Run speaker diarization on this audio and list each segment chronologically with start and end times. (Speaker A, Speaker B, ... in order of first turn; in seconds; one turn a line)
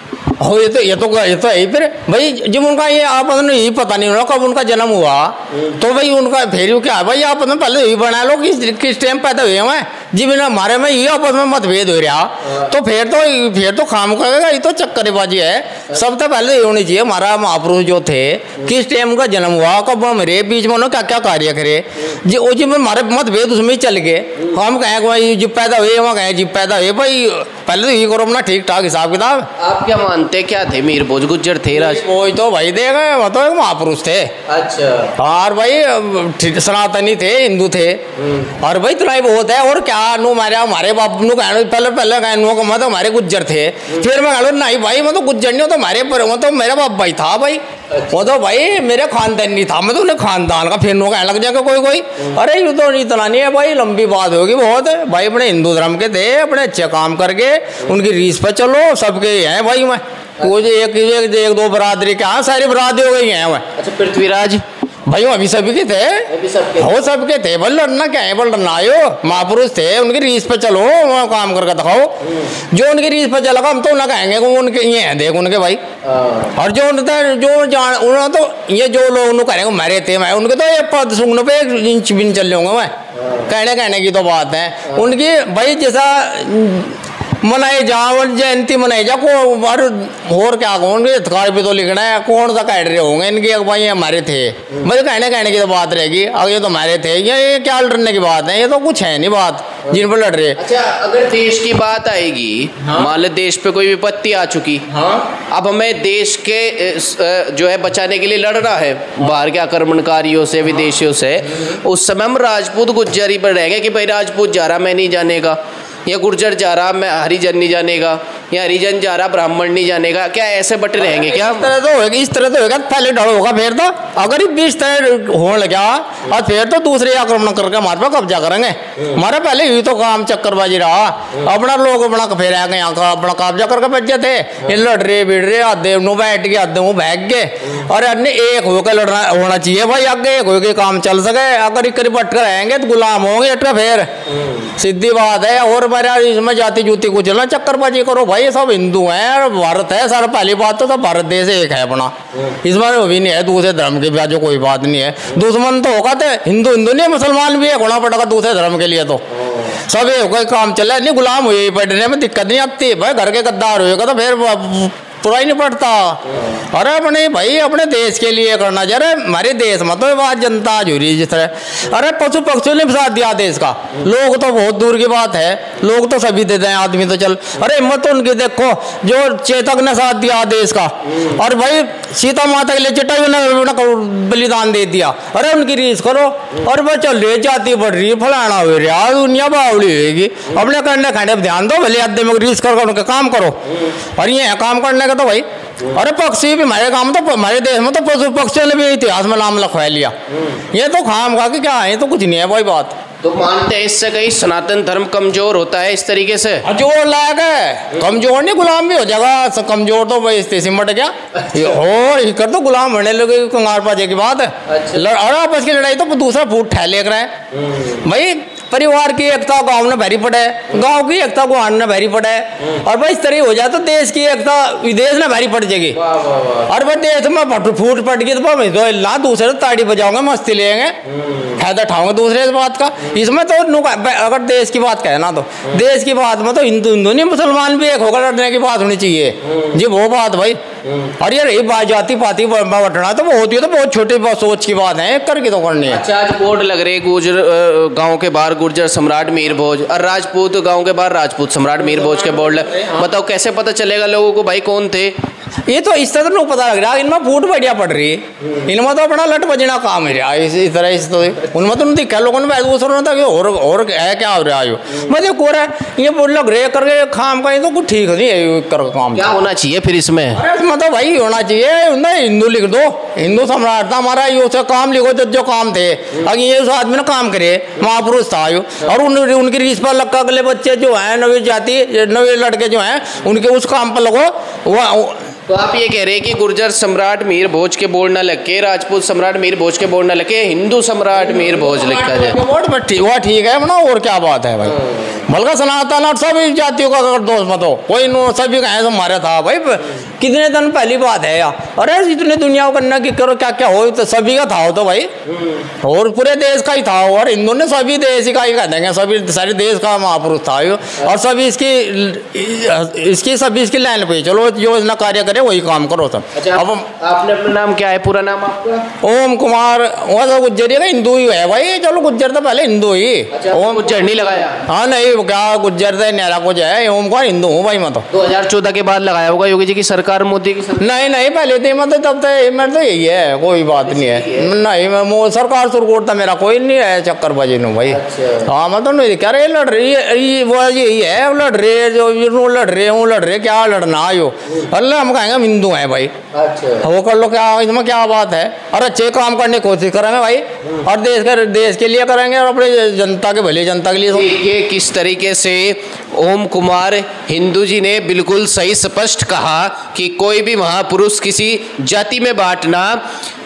Speaker A: 0.4-29.5
Speaker B: 29.6-32.0
Speaker A: 31.7-34.3
Speaker B: 34.5-35.1
Speaker A: 35.2-38.0
Speaker B: 38.2-38.5
Speaker A: 38.6-63.7
Speaker B: 47.9-48.2
Speaker B: 63.8-64.6
Speaker A: 65.1-66.3
Speaker B: 66.3-67.0
Speaker A: 66.8-72.1
Speaker A: 72.7-75.8
Speaker B: 76.0-76.5
Speaker A: 76.5-82.9
Speaker B: 83.2-83.5
Speaker A: 83.4-100.6
Speaker B: 100.6-121.7
Speaker A: 121.0-144.1
Speaker B: 144.3-144.7
Speaker A: 144.7-193.6
Speaker A: 194.2-200.1
Speaker A: 200.7-203.0
Speaker B: 203.2-206.7
Speaker A: 206.6-217.3
Speaker B: 214.7-215.1
Speaker B: 217.5-218.0
Speaker A: 217.9-226.0
Speaker B: 225.9-226.7
Speaker A: 226.7-231.0
Speaker B: 231.1-231.6
Speaker A: 231.5-240.6
Speaker A: 241.2-246.0
Speaker B: 245.8-255.1
Speaker A: 251.8-253.1
Speaker A: 255.7-269.3
Speaker B: 269.1-270.4
Speaker A: 270.4-285.2
Speaker B: 285.5-292.4
Speaker A: 291.1-305.1
Speaker B: 305.3-305.6
Speaker A: 305.8-316.9
Speaker B: 316.4-318.9
Speaker A: 319.0-324.0
Speaker B: 323.3-324.6
Speaker A: 324.6-328.1
Speaker B: 328.1-330.9
Speaker A: 330.8-346.1
Speaker B: 333.8-334.5
Speaker B: 337.9-338.5
Speaker B: 346.3-346.9
Speaker A: 346.8-354.3
Speaker B: 354.1-363.0